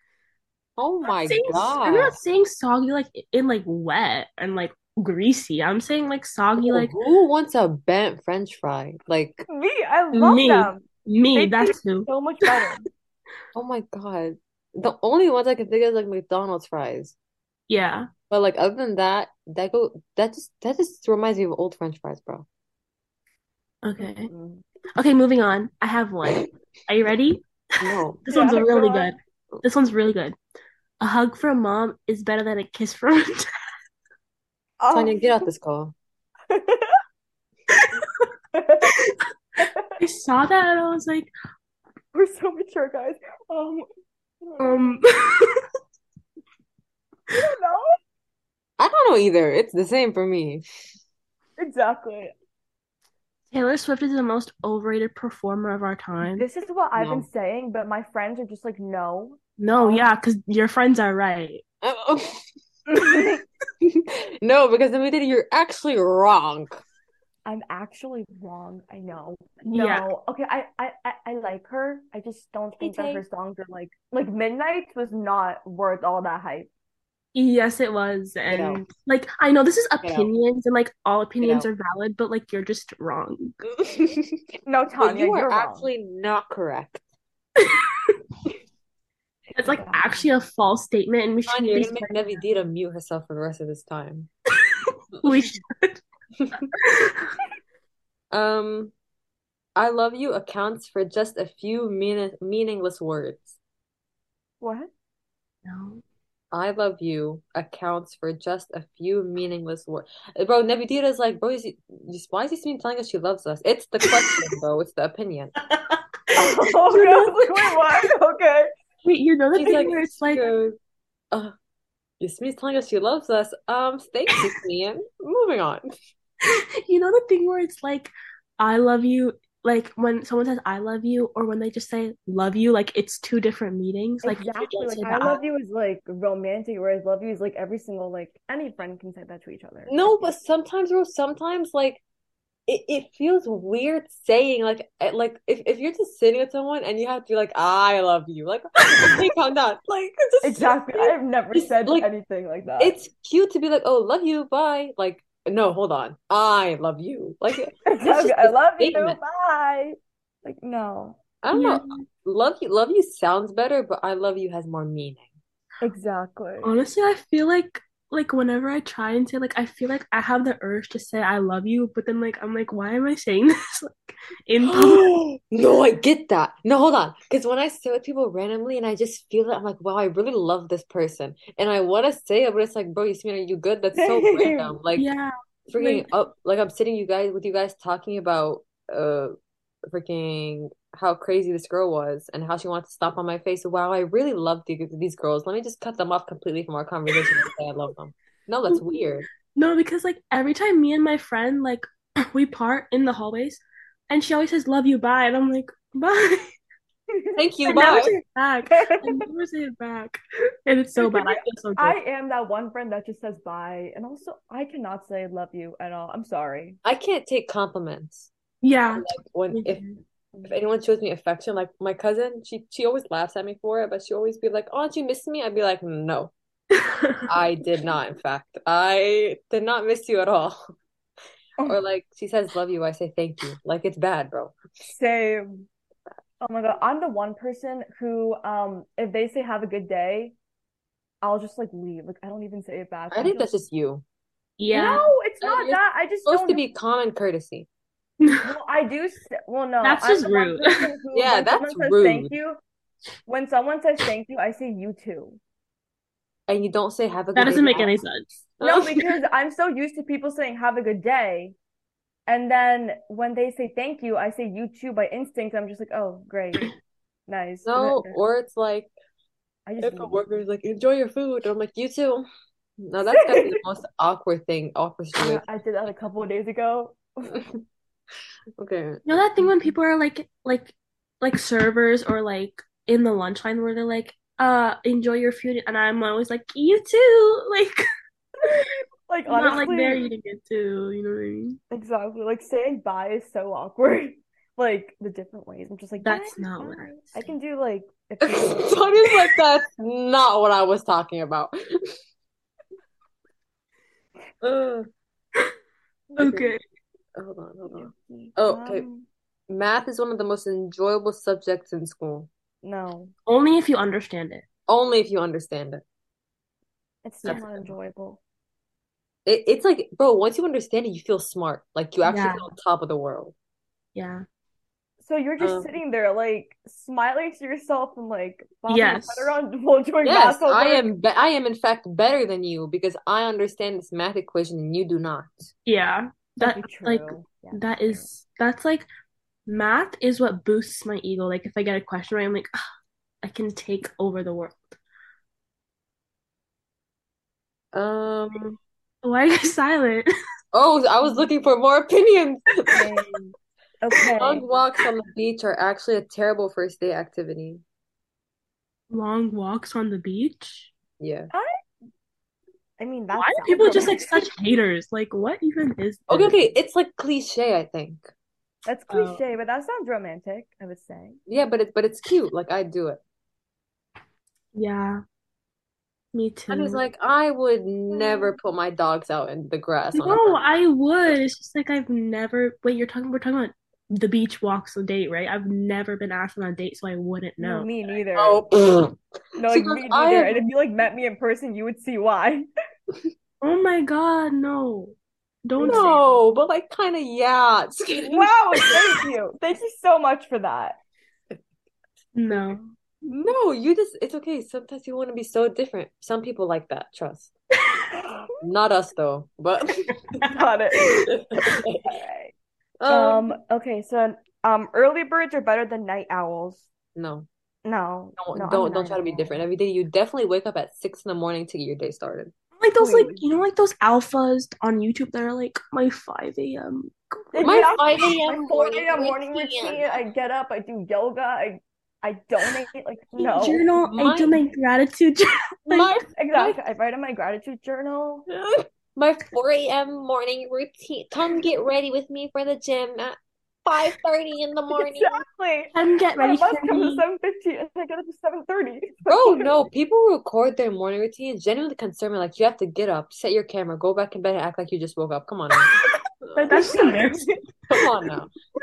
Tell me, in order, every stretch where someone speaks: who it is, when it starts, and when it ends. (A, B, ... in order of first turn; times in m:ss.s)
0:00.8-0:02.2 A
0:01.2-0:06.9 B
0:06.6-0:09.5 A
0:09.5-0:12.9 C
0:10.1-0:12.7 B
0:13.5-0:17.2 A
0:17.7-0:18.1 B
0:18.3-0:22.5 A
0:23.8-0:24.3 B
0:24.0-0:24.6 C
0:25.0-0:30.4 B
0:27.8-0:28.2 A
0:28.3-0:29.2 C
0:31.0-0:33.5 B
0:34.8-0:35.4 C
0:34.9-0:36.0 A
0:36.5-0:37.0 C
0:37.7-0:38.3 B
0:38.5-0:39.0 C
0:38.9-0:39.2 B
0:39.6-0:40.0 C
0:40.0-0:41.3 B
0:42.1-0:43.8 C
0:44.4-0:45.0 C
0:44.6-0:45.6 B
0:47.4-0:48.0 C
0:48.8-0:50.6 A
0:51.6-0:52.3 C
0:53.5-0:56.5 B
0:56.3-1:00.1 C
0:57.0-0:57.3 A
0:59.6-1:01.6 B
1:01.8-1:02.4 A
1:02.9-1:03.4 C
1:03.8-1:06.8 A
1:07.4-1:16.7 C
1:09.7-1:10.1 B
1:12.8-1:13.2 A
1:17.4-1:23.6 B
1:18.5-1:18.8 A
1:20.0-1:20.3 A
1:21.4-1:21.7 A
1:23.6-1:24.4 A
1:24.7-1:25.9 C
1:25.0-1:27.0 A
1:27.6-1:28.2 B
1:29.5-1:32.2 B
1:29.7-1:30.2 C
1:31.5-1:34.3 A
1:34.8-1:36.0 B
1:36.8-1:37.3 B
1:38.3-1:38.9 A
1:39.8-1:43.6 A
1:44.6-1:44.9 C
1:45.6-1:46.0 B
1:46.5-1:55.5 A
1:55.6-1:57.8 B
1:56.4-1:58.7 C
1:59.0-2:00.4 B
1:59.6-2:00.8 A
2:02.2-2:05.8 A
2:06.4-2:15.4 B
2:14.2-2:20.3 C
2:19.9-2:22.0 A
2:22.7-2:32.1 A
2:30.4-2:33.0 C
2:32.8-2:39.2 A
2:37.9-2:41.2 C
2:41.4-2:45.3 A
2:41.5-2:42.0 B
2:45.8-2:46.7 C
2:46.6-2:55.1 B
2:54.6-3:05.1 A
3:04.0-3:04.7 C
3:05.0-3:06.1 B
3:05.7-3:09.3 A
3:09.9-3:19.3 A
3:19.5-3:26.5 B
3:27.1-3:27.4 C
3:27.4-3:28.2 A
3:27.7-3:32.0 B
3:28.7-3:29.2 C
3:31.0-3:36.8 C
3:36.8-3:38.3 A
3:38.6-3:40.0 B
3:39.0-3:39.8 A
3:40.4-3:46.3 A
3:46.8-3:47.2 B
3:47.3-3:50.6 A
3:51.7-3:54.6 A
3:54.9-3:55.7 C
3:56.4-4:00.4 C
4:01.2-4:03.5 C
4:03.1-4:04.0 A
4:04.6-4:05.1 B
4:04.7-4:06.6 C
4:05.4-4:07.7 A
4:08.2-4:08.5 B
4:08.4-4:12.6 C
4:09.8-4:10.9 B
4:11.1-4:12.3 A
4:13.3-4:15.4 C
4:16.5-4:18.0 A
4:17.4-4:18.3 B
4:18.6-4:19.0 A
4:18.6-4:21.6 C
4:22.3-4:26.7 C
4:27.3-4:28.2 C
4:27.7-4:28.9 A
4:29.7-4:30.2 C
4:29.8-4:32.3 A
4:32.8-4:35.4 A
4:35.2-4:37.3 C
4:37.3-4:37.6 A
4:38.6-4:39.0 A
4:39.1-4:47.9 B
4:48.4-4:50.0 C
4:49.3-4:51.6 B
4:51.7-4:59.0 C
4:56.0-4:57.1 B
4:58.2-5:01.6 A
5:04.4-5:04.9 A
5:06.2-5:06.5 A
5:06.2-5:06.6 B
5:07.2-5:08.8 A
5:07.7-5:09.1 C
5:09.5-5:12.3 A
5:12.6-5:13.1 C
5:13.3-5:14.5 B
5:14.7-5:15.8 A
5:17.0-5:18.2 C
5:17.2-5:17.7 A
5:19.3-5:23.3 A
5:22.0-5:22.5 B
5:24.0-5:24.2 B
5:25.0-5:30.8 C
5:25.4-5:25.7 A
5:28.7-5:29.4 B
5:30.0-5:35.5 A
5:35.7-5:38.9 B
5:36.4-5:38.1 C
5:39.5-5:42.5 B
5:43.2-5:44.8 B
5:47.7-5:48.6 A
5:49.0-5:50.1 B
5:50.5-5:52.8 A
5:52.7-5:54.4 C
5:54.2-5:57.6 A
5:58.9-6:00.7 B
6:01.0-6:01.3 A
6:02.8-6:04.2 C
6:03.2-6:06.4 B
6:06.1-6:08.1 A
6:08.7-6:11.2 C
6:08.9-6:09.2 B
6:11.3-6:13.0 A
6:14.5-6:15.0 B
6:16.1-6:16.8 B
6:16.5-6:20.4 A
6:17.9-6:18.4 C
6:19.9-6:27.7 B
6:27.4-6:28.4 C
6:28.2-6:30.4 A
6:29.4-6:32.5 C
6:33.4-6:36.1 B
6:35.6-6:35.9 C
6:35.6-6:38.8 A
6:38.0-6:40.8 C
6:42.2-6:42.7 B
6:43.0-6:47.3 A
6:48.0-6:48.3 C
6:48.4-6:49.9 A
6:50.2-6:50.9 C
6:50.8-6:51.1 B
6:51.1-6:51.9 A
6:51.8-6:52.3 C
6:52.8-6:53.4 A
6:52.9-6:56.7 C
6:57.0-6:57.3 A
6:57.6-6:59.4 C
6:58.2-7:02.3 A
7:02.6-7:07.7 B
7:02.8-7:03.2 C
7:07.3-7:13.6 C
7:07.4-7:10.0 A
7:13.2-7:16.0 B
7:13.8-7:14.4 A
7:15.7-7:16.6 A
7:16.2-7:18.3 C
7:18.3-7:25.2 A
7:24.7-7:29.5 C
7:25.7-7:27.0 B
7:29.1-7:35.7 A
7:36.2-7:36.8 A
7:36.4-7:37.3 B
7:36.5-7:37.3 C
7:37.7-7:38.3 A